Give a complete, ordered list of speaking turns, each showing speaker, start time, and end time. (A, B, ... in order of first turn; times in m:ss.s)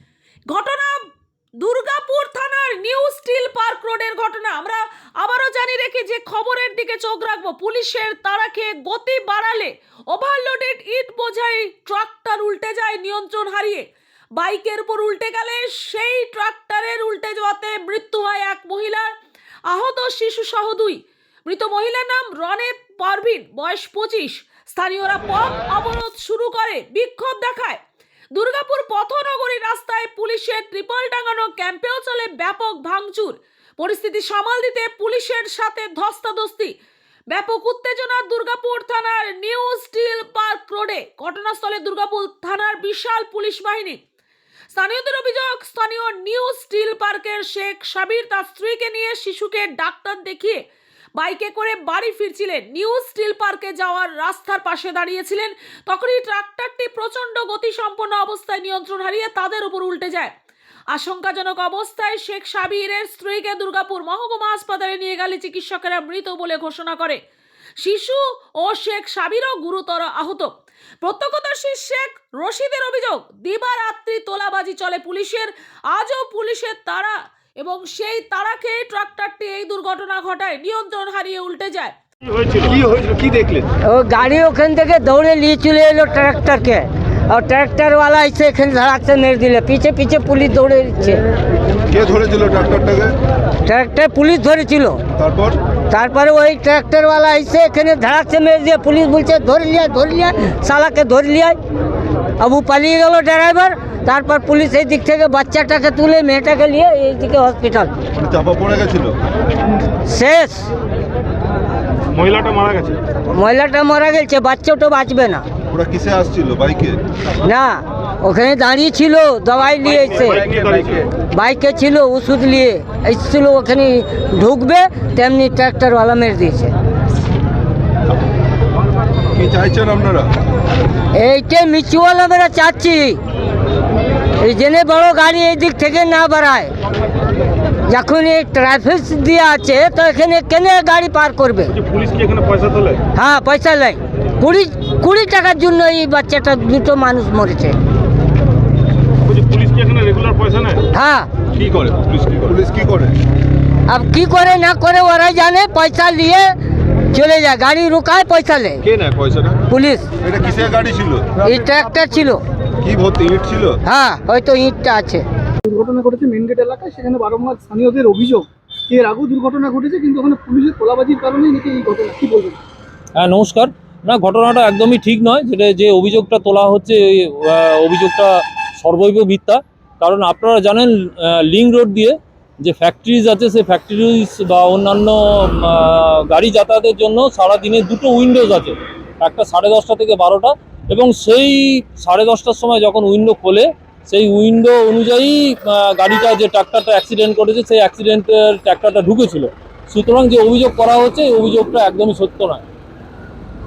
0:00.5-0:01.0 A
0:01.6-0:13.8 A
0:14.4-0:19.1 A
0:19.7-0:27.8 A
0:28.3-0:36.7 A
0:37.3-0:44.0 A
0:44.7-0:50.6 A
0:51.2-1:00.3 A
1:00.9-1:07.2 A
1:07.8-1:10.5 A
1:11.0-1:21.9 A
1:22.9-1:23.6 B
1:23.9-1:31.2 C
1:31.9-1:33.1 B
1:33.6-1:35.0 C
1:35.2-1:35.6 B
1:35.9-1:41.6 C
1:42.4-1:47.9 C
1:48.2-1:49.2 B
1:50.1-1:50.7 C
1:53.3-1:55.4 C
1:55.7-1:57.0 B
1:57.4-2:00.5 C
2:00.4-2:01.0 B
2:01.3-2:06.7 C
2:09.3-2:10.3 B
2:11.2-2:13.2 C
2:14.4-2:16.7 C
2:17.9-2:21.8 C
2:23.1-2:27.8 C
2:30.9-2:31.3 C
2:31.7-2:33.1 B
2:33.9-2:36.5 C
2:37.1-2:38.8 C
2:39.0-2:39.6 B
2:39.7-2:40.1 C
2:40.2-2:41.4 B
2:41.4-2:42.4 C
2:42.8-2:43.8 B
2:43.8-2:45.2 C
2:45.7-2:52.6 D
2:53.2-3:22.6 E